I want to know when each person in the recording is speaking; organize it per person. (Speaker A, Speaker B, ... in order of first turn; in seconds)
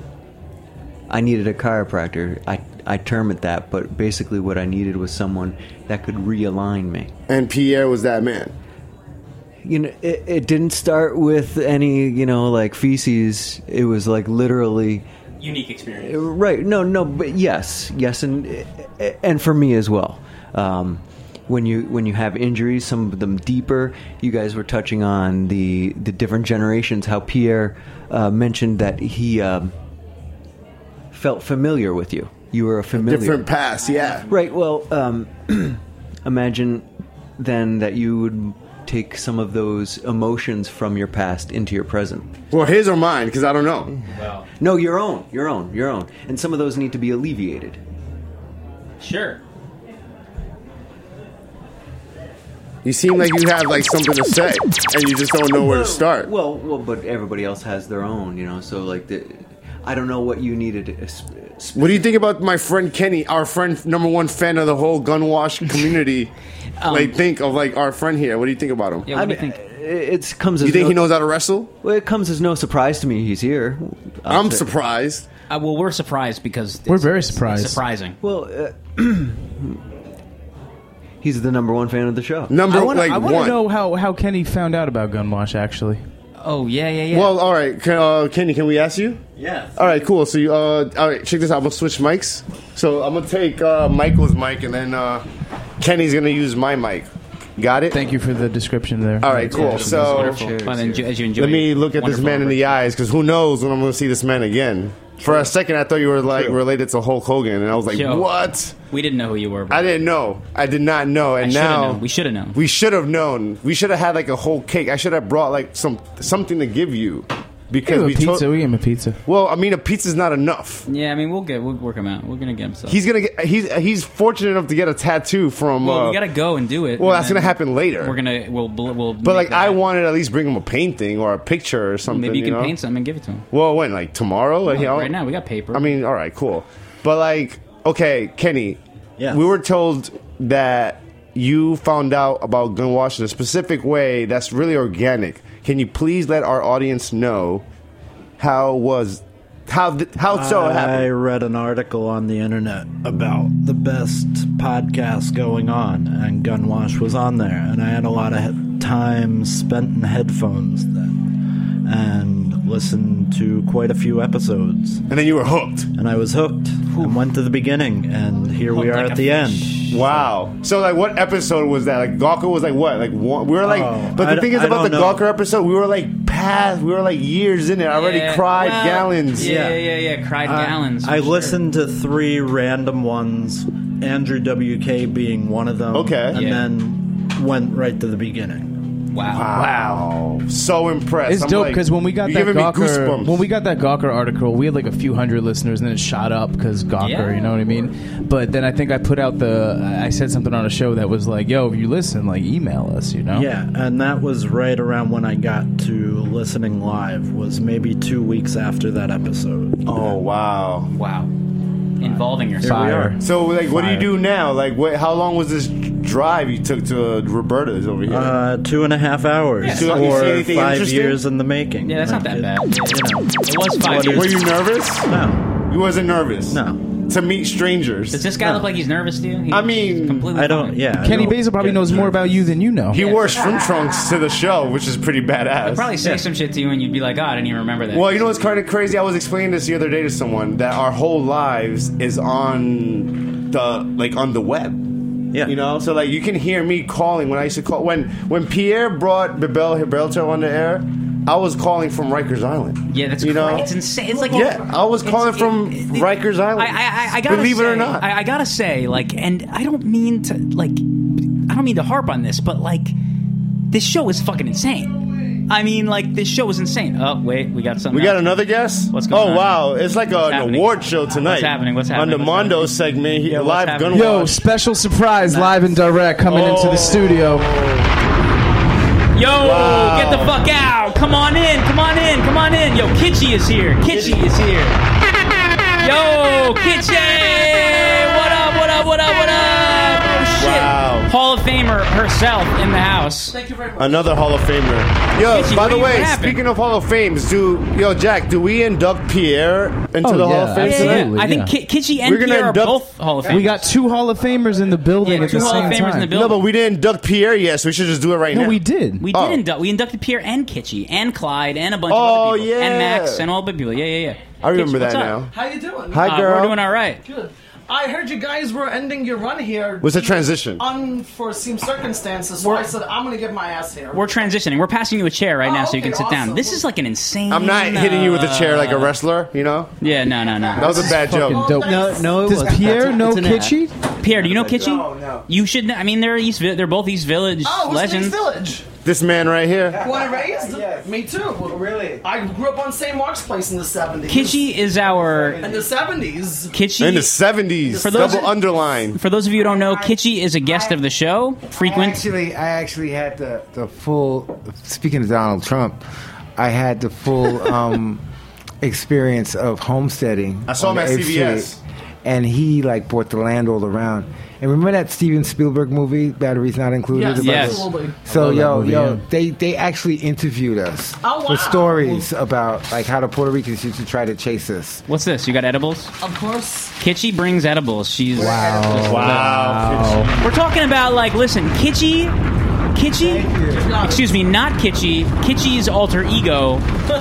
Speaker A: 1.1-7.1, 9.6-15.1, 16.0-29.7, 31.1-33.5, 34.3-36.9, 37.4-42.3, 44.6-47.8, 55.5-62.2, 69.1-71.1, 71.8-74.7, 78.2-79.8, 81.2-82.6, 89.4-89.7, 99.5-101.2, 331.6-333.6, 334.1-334.7
Speaker B: 7.3-8.5, 32.9-34.3, 42.5-43.9, 52.9-56.3, 61.8-66.3, 66.9-69.1, 70.6-71.7, 74.3-75.2, 82.5-83.6, 87.1-89.2, 89.8-95.2, 95.8-98.0, 99.2-100.5, 101.4-108.7, 109.7-112.0, 112.5-118.5, 119.3-120.8, 122.9-126.2, 127.0-128.2, 129.2-132.7, 133.5-135.1, 135.7-138.8, 139.3-147.6, 148.4-151.1, 165.1-165.9, 169.9-179.6, 185.9-186.4, 189.3-193.4, 209.9-210.9, 213.2-218.4, 219.6-221.2, 224.1-225.1, 225.7-228.2, 229.5-230.3, 232.9-235.9, 237.9-244.8, 245.4-253.7, 254.2-258.1, 267.9-274.4, 276.3-277.9, 279.4-280.4, 290.4-291.1, 293.8-301.1, 302.0-302.9, 305.4-309.4, 311.9-313.2, 314.4-315.3, 315.9-316.6, 319.8-320.6, 327.3-329.7, 330.6-331.5, 338.8-339.8, 346.8-349.0, 360.5-361.6, 378.9-380.1
Speaker C: 15.4-16.3, 44.1-44.4, 49.0-49.4, 66.8-67.2, 69.1-69.6, 75.5-78.2, 86.4-87.4, 99.6-102.8, 107.9-108.3, 108.9-109.9, 111.4-112.6, 120.9-123.0, 125.8-129.8, 132.1-133.5, 134.7-135.9, 168.7-170.2, 177.9-181.6, 186.3-186.6, 189.1-189.5, 197.0-197.5, 210.9-211.3, 212.0-212.8, 219.6-220.1, 221.8-224.4, 228.1-230.8, 232.9-233.3, 235.6-238.3, 252.9-262.9, 263.7-268.4, 268.9-274.1, 279.1-284.8, 285.8-293.4, 295.3-296.4, 300.6-303.6, 305.0-306.5, 309.0-315.2, 316.0-317.0, 323.9-328.9, 329.8-330.9, 334.0-338.3, 344.1-345.4, 346.5-347.1, 347.8-348.3, 349.0-352.0, 367.2-367.6, 374.9-375.9, 376.8-379.2, 380.2-382.2, 382.7-386.6
Speaker D: 76.9-77.8, 82.7-86.0, 97.9-99.6, 117.8-119.2, 189.6-190.0, 191.3-203.5, 212.6-213.2, 231.0-233.0, 273.9-277.5, 300.0-301.5, 303.3-306.1, 308.3-309.1, 330.6-333.7, 368.1-369.0, 378.2-380.1
Speaker E: 89.5-90.0, 139.2-139.5, 150.3-161.2, 161.8-165.0, 166.0-169.8, 173.6-175.3, 179.3-188.7, 203.3-210.2, 212.6-214.2, 218.1-225.4, 226.5-226.8, 230.3-232.6
Speaker F: 293.3-294.2, 315.3-316.1, 317.0-324.1, 325.4-326.6, 331.3-332.2, 337.4-338.7, 339.8-344.4, 345.4-346.5, 347.7-348.3, 366.9-368.0, 371.0-372.1, 376.0-376.7, 383.5-384.1
Speaker G: 334.5-335.2, 339.7-342.1, 344.9-345.7, 349.4-350.8, 351.6-355.8, 356.4-358.0, 358.6-361.5, 362.0-374.8, 378.1-378.9, 382.9-383.8